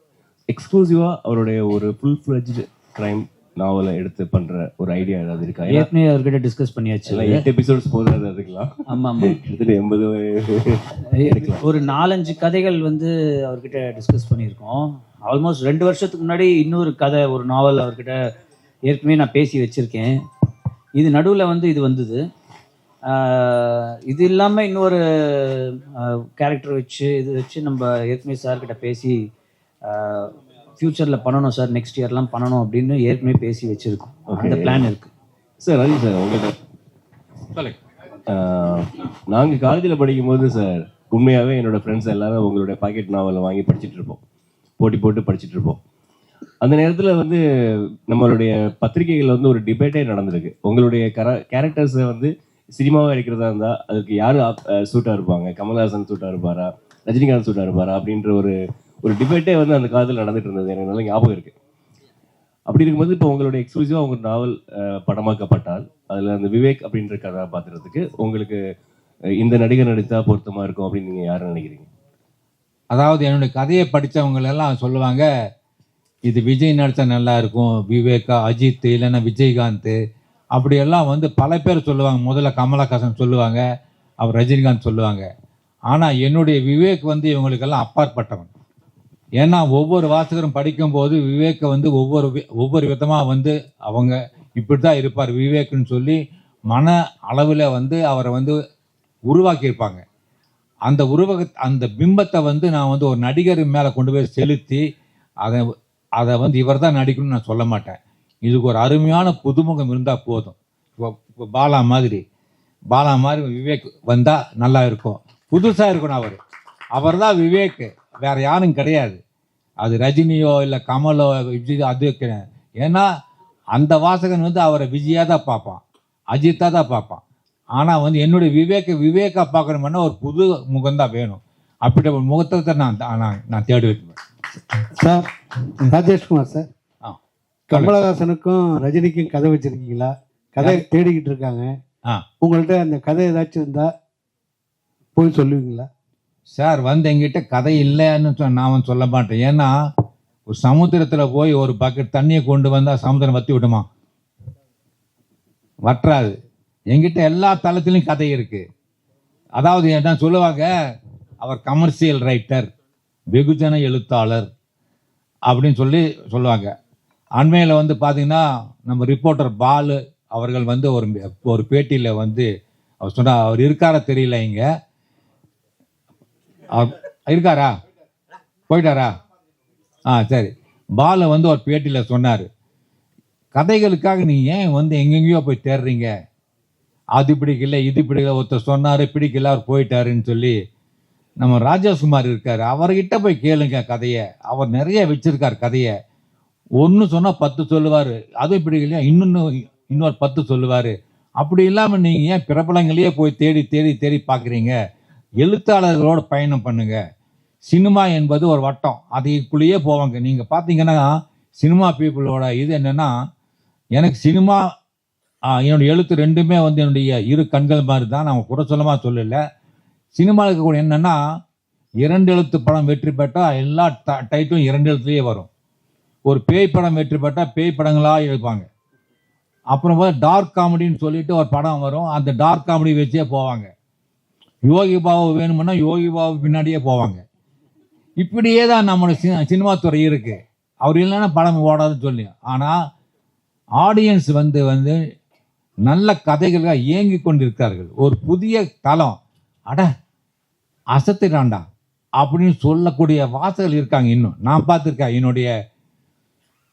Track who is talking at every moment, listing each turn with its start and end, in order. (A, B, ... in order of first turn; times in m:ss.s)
0:00.5-0:05.9 A
0:05.6-0:07.5 B
0:07.0-0:11.6 A
0:08.9-0:09.4 B
0:11.2-0:18.1 B
0:18.9-0:20.1 B
0:21.0-0:22.2 B
0:23.1-0:25.7 B
0:26.4-0:29.2 B
0:29.9-0:35.1 B
0:34.3-0:34.9 A
0:35.6-0:36.5 A
0:38.3-0:44.2 A
0:44.8-0:45.8 A
0:46.6-0:47.4 A
0:48.1-1:01.5 A
1:02.7-1:08.6 A
1:09.4-1:11.9 A
1:12.9-1:15.2 C
1:16.2-1:20.0 C
1:20.5-1:23.6 C
1:24.2-1:25.2 C
1:25.9-1:28.5 C
1:29.4-1:36.2 C
1:36.7-1:38.5 C
1:39.3-1:40.0 C
1:40.9-1:44.8 C
1:46.2-1:52.2 C
1:52.9-1:56.4 C
1:56.9-1:59.2 C
1:59.8-2:03.0 C
2:03.7-2:05.8 C
2:06.3-2:07.2 C
2:07.8-2:14.2 C
2:15.0-2:15.3 D
2:15.8-2:16.7 D
2:17.7-2:21.8 D
2:17.7-2:18.0 C
2:22.4-2:23.9 D
2:25.2-2:25.9 D
2:26.5-2:29.7 C
2:30.5-2:33.8 C
2:35.9-2:36.3 C
2:36.9-2:38.6 C
2:39.6-2:40.7 C
2:41.4-2:42.7 C
2:43.3-2:44.5 C
2:45.5-2:46.7 C
2:47.4-2:52.5 C
2:53.0-2:54.6 C
2:56.7-2:57.7 C
2:58.7-2:59.1 C
3:00.1-3:02.5 C
3:03.5-3:06.1 C
3:07.2-3:10.6 C
3:11.4-3:15.9 C
3:16.8-3:24.7 C
3:25.4-3:27.0 C
3:27.7-3:31.1 C
3:31.6-3:33.1 C
3:34.0-3:34.6 C
3:35.5-3:39.4 C
3:40.2-3:41.2 C
3:42.0-3:45.5 C
3:46.2-3:48.7 C
3:49.7-3:53.7 C
3:54.6-3:57.2 C
3:58.2-4:02.8 C
4:03.8-4:05.0 C
4:05.9-4:09.2 C
4:10.9-4:11.6 C
4:12.2-4:15.5 C